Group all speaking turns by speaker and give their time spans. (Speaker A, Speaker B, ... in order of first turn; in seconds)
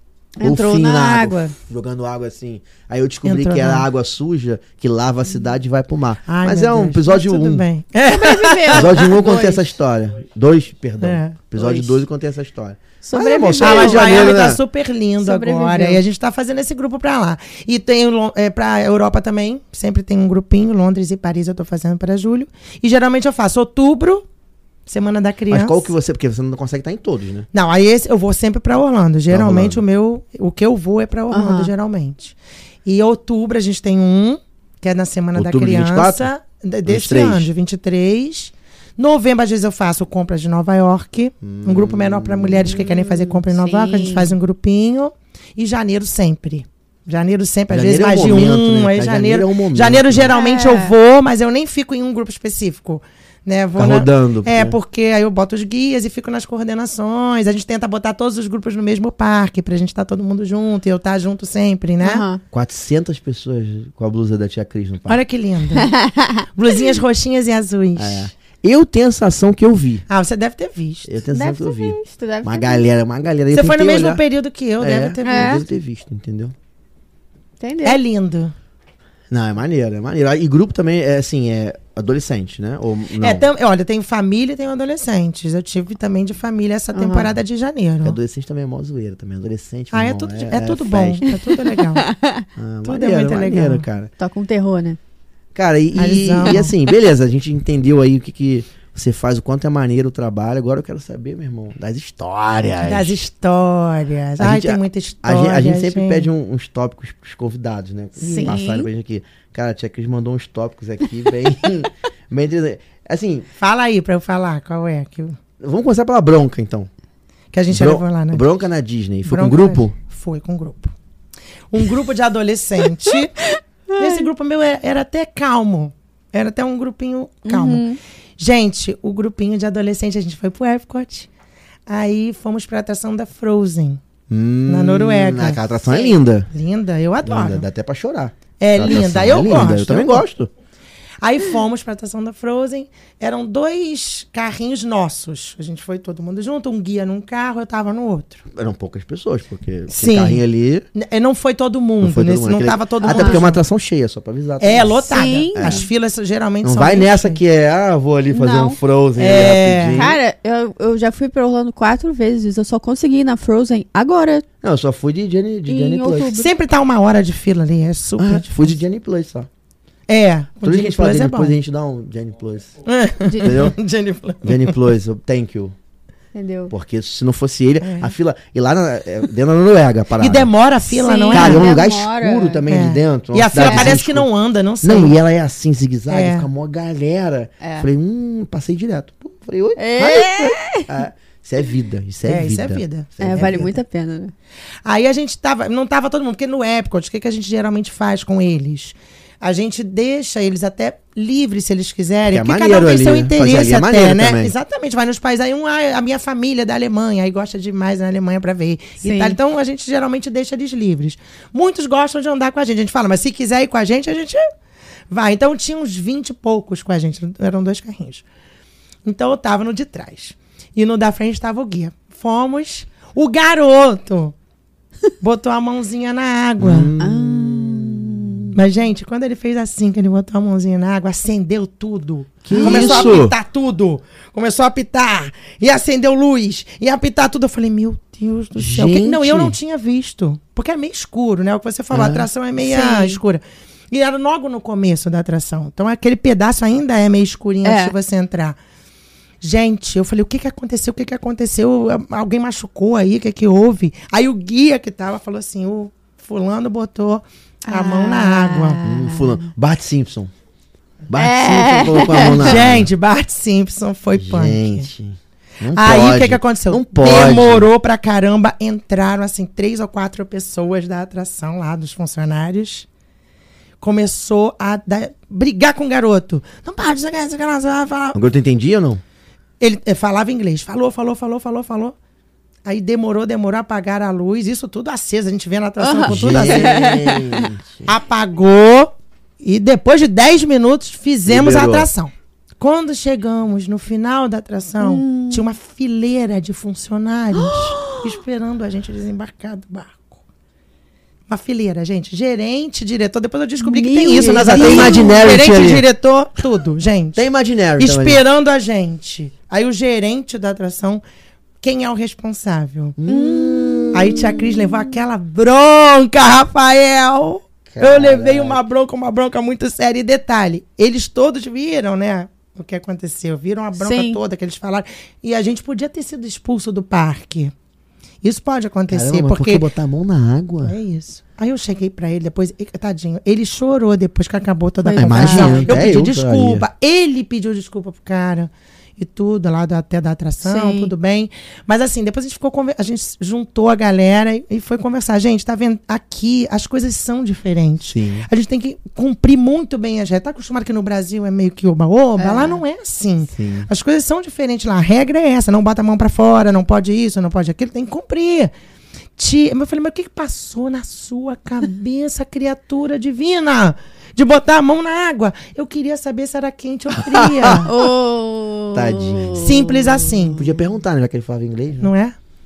Speaker A: 0.4-1.5, 8.1-9.6, 13.0-14.4, 15.2-16.0, 31.3-31.7, 42.7-44.3, 50.3-50.9, 62.0-62.4, 65.8-66.8, 71.3-72.8, 75.2-75.6, 77.6-78.0, 86.9-87.3, 91.5-92.5, 94.2-95.0, 108.2-108.9, 123.5-124.2, 127.5-128.0, 135.8-136.1, 153.0-153.4, 155.0-155.9, 158.3-158.8, 159.9-164.4, 165.7-166.5, 173.2-173.5, 176.3-176.7, 180.9-182.6, 183.6-184.0, 187.6-187.9, 189.8-190.9, 193.2-194.3, 209.0-209.4, 227.0-228.4, 232.5-233.2, 242.6-243.2, 247.6-247.9, 257.6-259.4, 261.1-262.6, 285.8-287.5, 294.8-295.4, 297.3-298.1, 303.6-305.2, 313.1-314.9, 323.8-324.2, 334.8-335.8, 340.4-340.9, 352.2-352.6, 367.6-370.3
Speaker B: 0.4-7.6, 8.7-14.6, 25.5-27.5, 29.3-29.8, 35.3-36.3, 36.9-37.5, 41.4-42.8, 47.7-50.4, 53.8-54.8, 62.5-65.2, 68.0-70.0, 71.0-74.2, 74.8-76.5, 79.3-83.5, 88.0-91.3, 92.6-94.1, 95.5-103.2, 104.4-113.5, 115.6-116.9, 117.7-119.9, 134.3-136.5, 137.2-140.5, 148.5-150.9, 152.0-155.8, 156.6-160.2, 164.6-166.3, 168.2-169.5, 170.6-172.7, 173.4-173.8, 174.4-175.7, 176.7-180.5, 181.3-184.3, 184.8-193.7, 202.3-204.5, 226.6-228.6, 232.4-233.3, 238.6-239.6, 241.9-242.3, 258.8-260.3, 261.1-262.9, 264.1-267.7, 278.1-279.0, 286.1-287.9, 291.2-291.9, 304.1-305.9, 307.1-308.2, 313.0-314.4, 317.7-318.6, 328.9-330.8, 335.0-336.6, 347.8-348.3, 353.4-353.7, 366.9-367.9, 368.7-369.5, 370.3-371.9
Speaker C: 3.2-3.9, 6.2-9.2, 11.0-12.0, 13.6-24.2, 24.9-25.9, 27.5-32.3, 32.9-62.3, 65.1-65.9, 66.5-68.3, 70.1-71.1, 73.5-75.7, 77.8-78.5, 83.2-88.2, 89.9-92.1, 92.8-93.9, 96.0-96.7, 102.8-106.3, 108.2-108.5, 113.6-115.4, 117.5-118.5, 119.3-120.9, 121.7-123.5, 124.0-127.8, 128.4-131.3, 131.9-134.0, 134.7-135.6, 136.5-137.7, 138.6-140.2, 141.2-148.4, 149.9-150.4, 150.9-153.6, 154.6-157.4, 159.2-160.1, 166.3-168.8, 170.1-171.5, 172.8-174.8, 177.8-178.1, 180.2-181.7, 182.7-185.2, 186.1-186.5, 192.2-193.7, 194.8-214.4, 215.1-218.2, 219.0-224.3, 225.2-226.9, 228.5-248.6, 249.4-258.8, 262.4-264.9, 265.7-272.9, 273.8-278.2, 279.6-281.9, 282.6-287.0, 287.9-300.2, 301.3-307.2, 307.8-311.0, 311.6-313.0, 313.9-327.5, 328.2-329.6, 330.6-358.5, 359.2-367.7, 369.4-370.5, 371.8-372.1